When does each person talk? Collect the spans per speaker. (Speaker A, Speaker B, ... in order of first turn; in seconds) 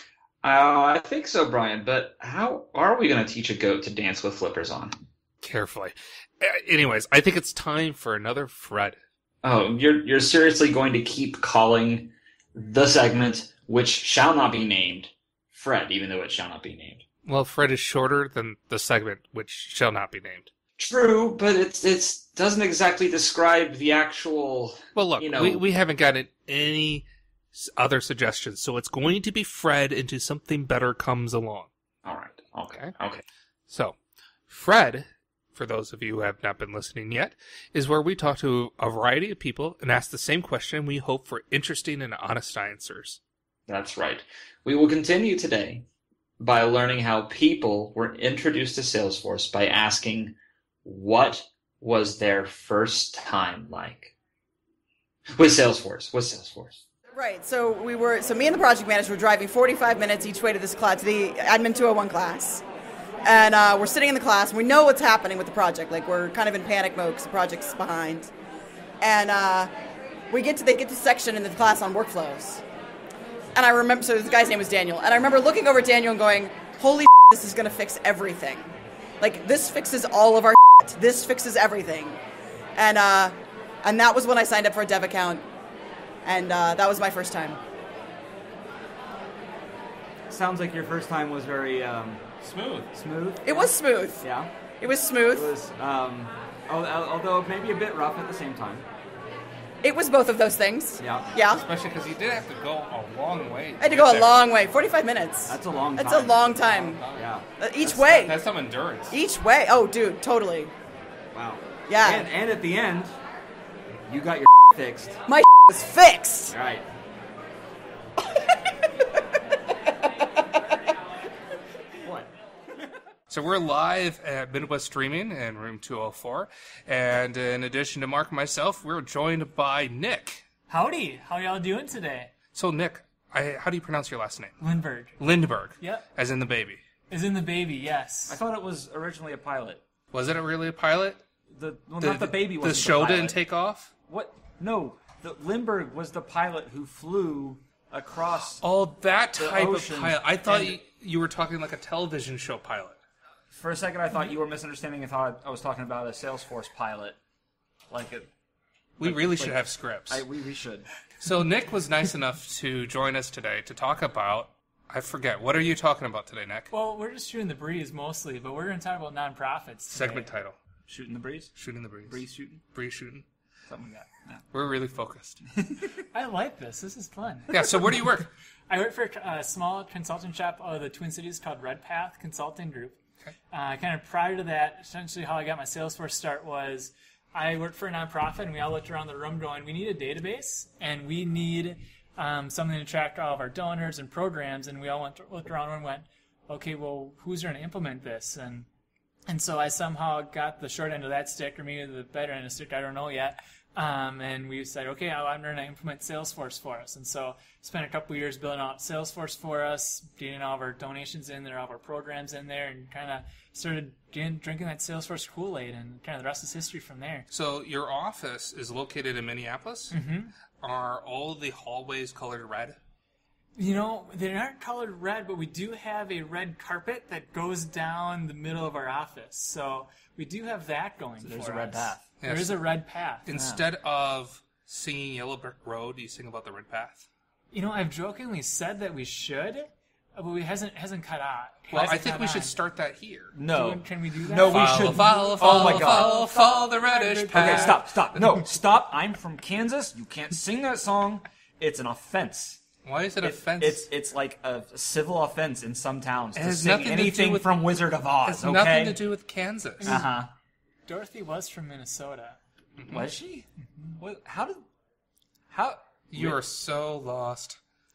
Speaker A: 0.4-5.0, 9.4-17.0, 20.8-25.6, 32.0-33.2, 43.7-45.8, 46.4-54.1, 55.3-56.8
Speaker B: 5.4-9.0, 17.2-20.5, 24.9-31.7, 33.7-34.0, 34.5-43.2, 92.4-92.9, 101.5-104.3, 106.7-107.2, 107.8-109.2, 123.3-130.4, 132.5-134.5, 135.2-136.8, 140.1-141.2, 142.0-143.9, 148.6-153.0, 159.0-160.2, 161.2-166.7, 169.9-170.6, 171.6-173.2, 174.5-175.4, 177.5-178.3, 217.3-220.0, 220.6-222.8, 232.2-232.6, 233.2-237.1, 241.7-243.3, 244.5-247.8, 252.8-253.9, 256.3-257.7, 258.2-260.0, 266.1-267.6
Speaker C: 57.1-62.6, 63.2-68.3, 69.0-69.7, 70.3-72.6, 73.5-82.2, 82.8-85.4, 86.2-87.6, 93.4-94.2, 94.8-95.5, 99.8-101.6, 103.8-107.0, 107.6-108.3, 109.1-110.7, 111.9-112.3, 115.3-116.5
Speaker D: 90.3-92.2, 92.9-94.5, 95.3-98.8, 101.0-101.3, 105.5-107.5, 111.3-113.1, 114.1-115.2, 116.5-116.8, 122.0-122.3, 138.3-139.8, 141.5-143.4, 144.1-148.6, 149.3-150.8, 153.5-157.2, 157.9-158.3, 159.0-160.9, 170.9-171.5, 172.0-172.6, 173.7-174.4, 175.5-176.0, 231.2-232.1, 233.3-233.6, 243.3-246.2, 247.3-252.6, 253.2-259.0, 259.8-260.3, 262.9-264.6, 265.5-266.4
Speaker E: 130.7-132.3, 134.6-135.2, 135.8-136.1, 137.1-138.4, 166.7-170.3, 176.1-178.1, 178.7-183.0, 183.5-198.7, 199.3-217.3, 219.9-220.3, 223.6-233.3, 237.5-242.6, 243.4-247.8, 259.8-260.2, 260.9-262.4